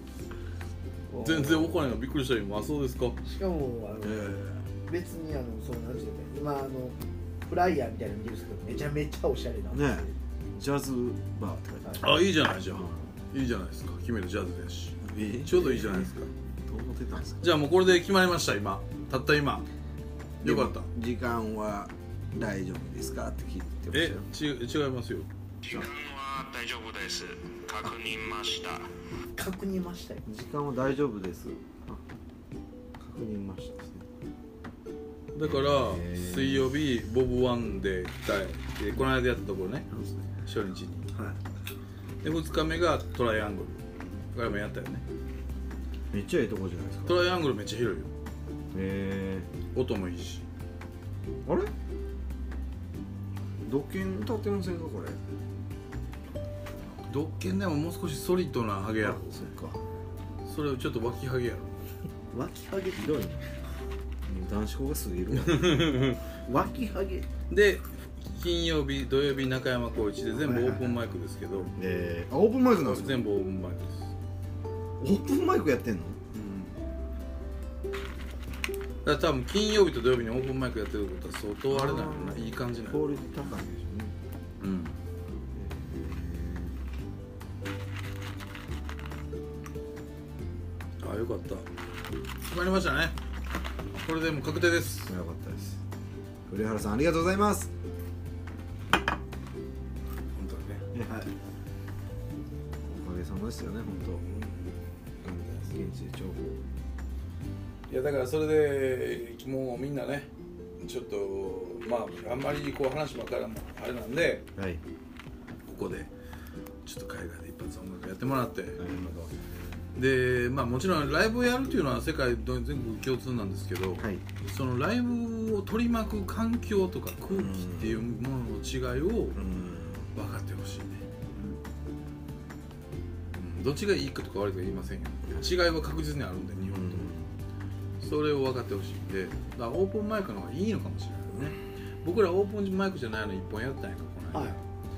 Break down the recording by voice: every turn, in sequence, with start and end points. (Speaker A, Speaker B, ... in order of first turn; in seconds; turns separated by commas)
Speaker A: 1.1-1.8, Speaker B: 1.1-3.2, Speaker A: 3.2-10.2, Speaker C: 4.0-4.6, Speaker C: 9.7-13.2, Speaker B: 12.0-16.3, Speaker C: 15.0-16.1, Speaker C: 16.6-17.5, Speaker B: 17.4-19.7, Speaker B: 20.4-20.9, Speaker C: 20.4-24.3, Speaker B: 23.9-25.3, Speaker D: 25.6-28.9, Speaker A: 29.4-30.2, Speaker C: 30.2-32.0, Speaker C: 33.0-34.1, Speaker B: 35.3-41.2, Speaker C: 35.4-36.7, Speaker C: 39.9-40.3, Speaker B: 42.2-45.0, Speaker C: 46.1-47.2, Speaker B: 47.1-48.1, Speaker C: 48.7-49.5, Speaker B: 49.7-50.5, Speaker C: 51.5-51.7, Speaker C: 53.7-55.2, Speaker B: 57.1-59.5, Speaker C: 59.0-59.8, Speaker B: 60.5-61.9, Speaker A: 62.3-63.2, Speaker C: 62.9-63.5, Speaker C: 64.3-65.8, Speaker B: 65.3-66.2, Speaker A: 66.5-67.3, Speaker B: 67.5-71.7, Speaker C: 70.4-70.8, Speaker C: 71.8-73.2, Speaker B: 72.8-74.1, Speaker C: 75.0-76.2, Speaker B: 76.3-76.8, Speaker B: 79.0-83.6, Speaker C: 81.7-84.2, Speaker B: 84.6-85.0, Speaker C: 85.5-86.8, Speaker B: 91.0-91.7, Speaker B: 92.4-93.2, Speaker B: 93.9-95.2, Speaker C: 95.1-95.8, Speaker C: 96.5-97.7, Speaker B: 100.3-100.9, Speaker C: 100.9-101.3, Speaker C: 102.8-104.4, Speaker B: 104.0-104.7, Speaker C: 105.2-106.6, Speaker B: 107.9-114.5, Speaker C: 114.6-114.8, Speaker B: 115.7-116.1, Speaker B: 116.8-118.9, Speaker C: 118.8-119.3, Speaker B: 120.0-129.4, Speaker C: 127.3-128.1, Speaker C: 129.4-130.1, Speaker B: 130.1-131.1, Speaker B: 133.3-137.1, Speaker C: 136.7-137.4, Speaker B: 138.0-144.6